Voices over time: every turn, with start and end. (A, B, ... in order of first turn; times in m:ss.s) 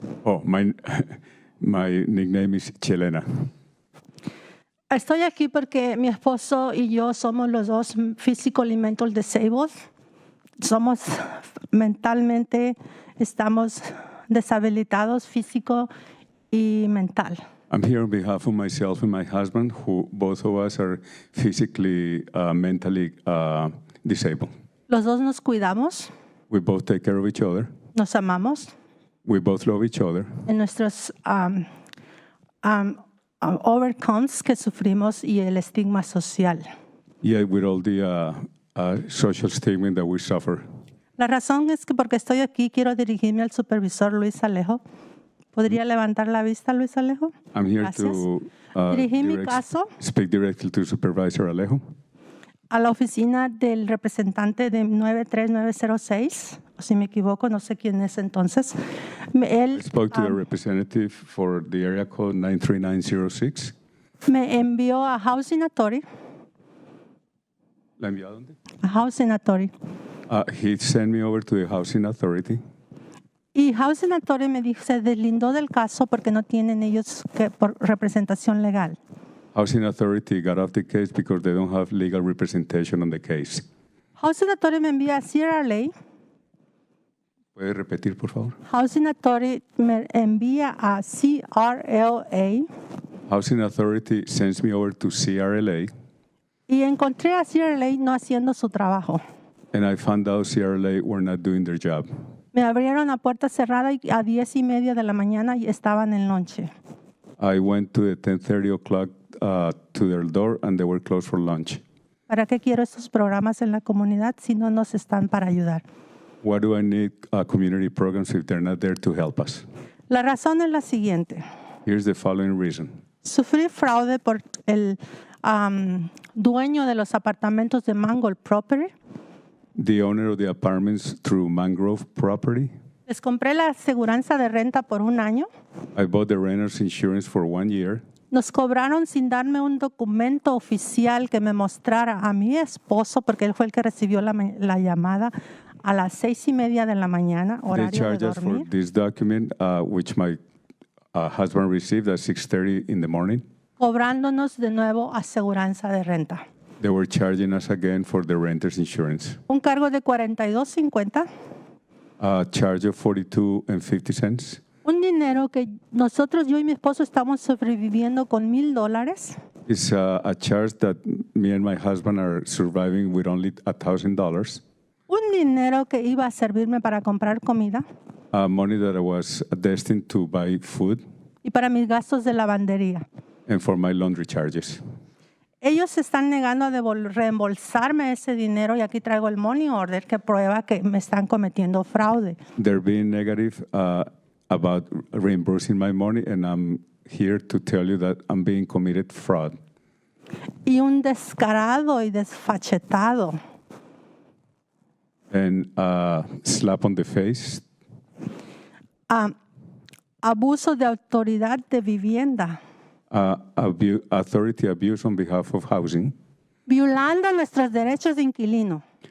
0:00.2-0:03.5 A
0:04.9-0:09.7 B
0:10.6-0:15.9 B
0:16.5-0:17.4 B
0:17.7-0:24.5 A
0:24.9-0:26.1 B
0:26.5-0:27.7 A
0:28.0-0:28.7 B
0:29.2-0:30.3 A
0:30.5-0:31.7 B
0:32.6-0:36.6 B
0:37.2-0:40.6 A
0:41.2-0:44.8 B
0:45.6-0:48.2 B
0:47.5-0:51.8 A
0:48.9-0:49.9 B
0:52.7-0:58.8 B
0:59.3-1:00.4 B
0:59.7-1:03.7 A
1:04.3-1:06.0 B
1:08.0-1:08.5 A
1:08.8-1:09.7 B
1:10.3-1:12.6 A
1:13.6-1:19.0 B
1:19.5-1:23.7 A
1:24.2-1:25.9 B
1:27.6-1:28.6 A
1:28.7-1:32.7 B
1:33.3-1:35.9 A
1:36.7-1:39.2 B
1:39.7-1:42.1 A
1:42.5-1:46.7 B
1:47.4-1:51.8 A
1:52.3-1:55.8 B
1:56.4-1:59.6 A
2:00.1-2:01.4 B
2:01.8-2:03.0 A
2:03.2-2:08.9 B
2:09.8-2:12.7 A
2:13.1-2:15.5 B
2:16.0-2:18.0 A
2:18.3-2:25.3 B
2:25.8-2:28.7 B
2:27.7-2:30.4 A
2:31.1-2:33.4 A
2:33.8-2:36.4 B
2:36.8-2:39.4 A
2:39.5-2:41.3 B
2:42.2-2:44.6 A
2:44.8-2:49.4 B
2:49.7-2:54.6 A
2:55.1-2:57.8 B
2:58.3-3:01.0 A
3:01.4-3:03.0 B
3:03.5-3:04.8 A
3:05.6-3:12.4 B
3:12.6-3:19.6 A
3:20.7-3:23.4 B
3:25.3-3:27.6 A
3:29.1-3:29.4 B
3:30.2-3:32.6 B
3:33.1-3:36.1 A
3:36.7-3:38.8 B